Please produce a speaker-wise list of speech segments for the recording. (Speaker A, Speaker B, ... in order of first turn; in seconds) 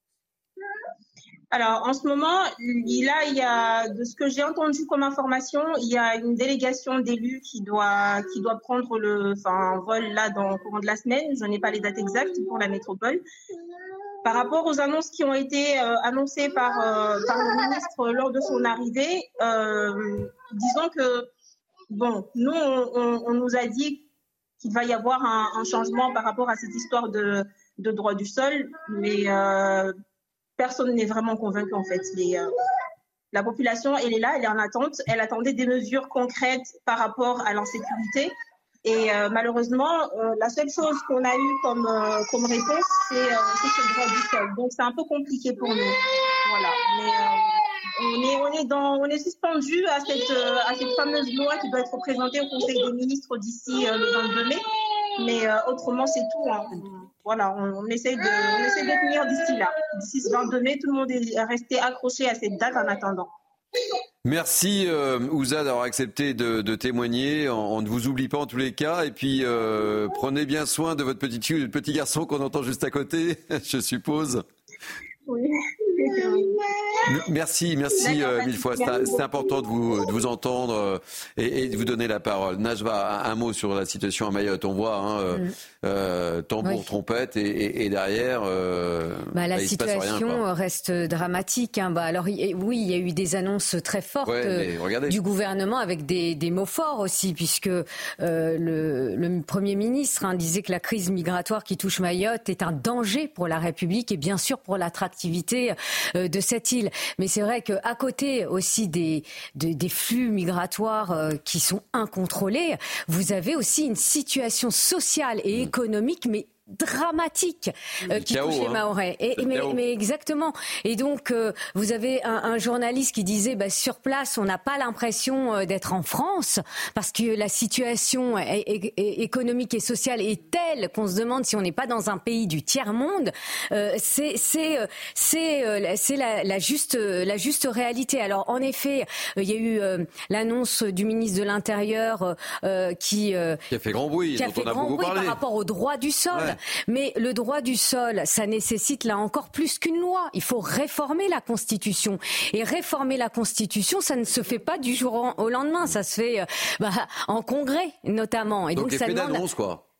Speaker A: 1.5-13.2, 14.2-21.3, 21.9-24.0, 24.6-29.9, 30.6-32.5, 33.3-38.3, 38.8-54.6, 55.2-63.3, 75.3-76.5, 77.9-79.5
Speaker B: 64.2-74.4, 77.1-90.4, 94.2-95.2, 118.1-119.8, 143.7-145.4, 158.8-159.8
Speaker C: 89.3-143.6, 144.3-159.4